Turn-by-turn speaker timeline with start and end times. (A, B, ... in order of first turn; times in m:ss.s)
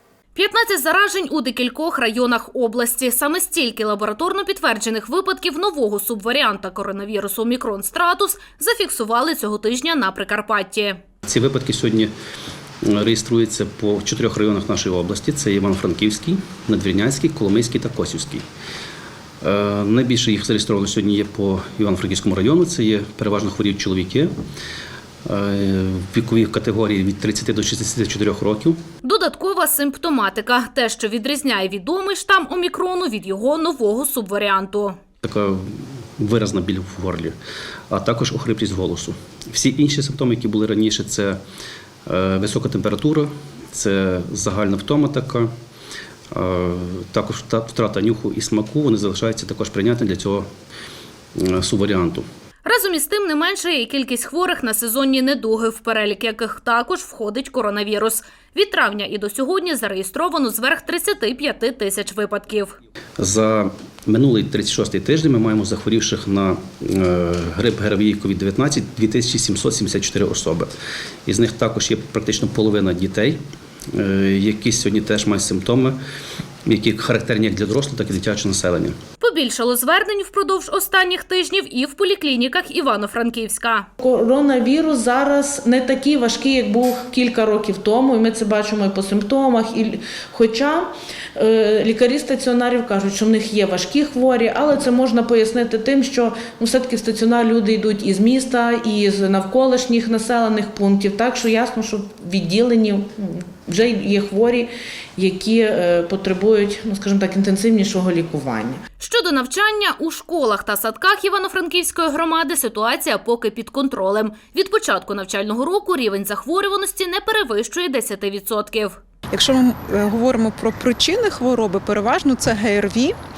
0:00.3-0:11.0 A
0:11.2-0:12.1 B
0:12.8-0:18.4 B
0:19.4-0:24.3 B
0:25.2-0:28.8 B
0:29.0-0:35.0 A
0:35.2-0:37.4 B
0:37.9-0:41.4 B
0:42.1-0:45.5 B
0:46.3-0:50.4 B
0:51.4-0:52.2 B
0:52.6-1:02.7 A
1:03.2-1:10.7 B
1:11.3-1:13.4 B
1:13.9-1:16.0 B
1:16.7-1:19.0 B
1:19.2-1:23.9 A
1:24.0-1:48.8 C
1:49.0-1:59.0 A
1:59.3-2:03.1 D